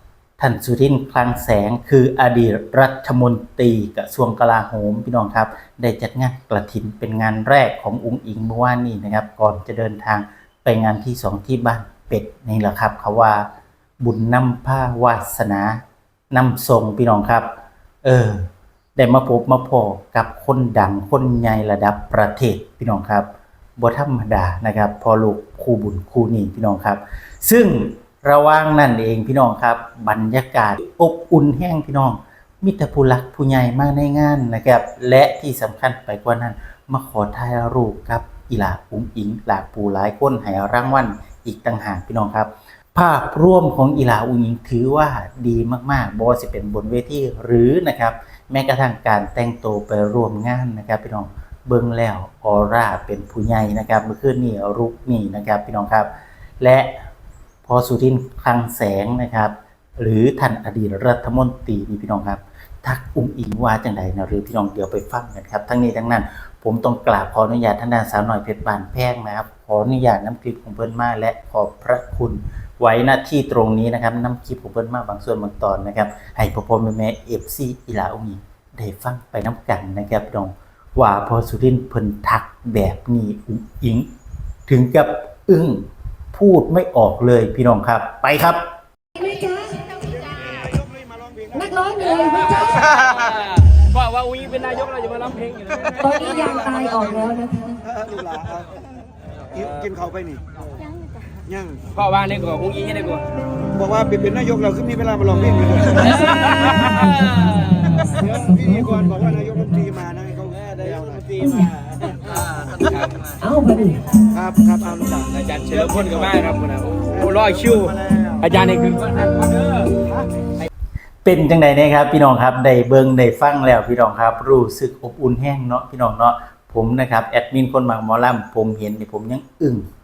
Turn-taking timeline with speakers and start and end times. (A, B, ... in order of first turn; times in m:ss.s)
0:00.4-0:13.5 A
0:14.0-0:15.8 A
0:16.3-0:17.5 A
0:18.0-0:57.0 A
0:57.6-1:24.1 A
1:24.7-1:28.6 A
1:29.2-1:30.6 B
1:30.6-1:31.6 C
1:31.5-1:32.9 B
1:32.8-1:35.9 D
1:36.0-1:37.8 B
1:37.9-1:38.7 C
1:39.6-1:40.4 C
1:41.5-1:41.8 C
1:41.9-1:43.2 D
1:43.7-1:46.7 C
1:46.0-1:47.9 D
1:47.0-1:49.9 B
1:48.5-1:51.3 C
1:50.8-1:52.2 D
1:51.4-1:51.8 B
1:52.8-1:53.3 D
1:53.4-1:54.4 B
1:54.3-1:56.2 C
1:55.3-1:59.9 D
1:57.3-1:58.5 C
2:01.2-2:09.8 A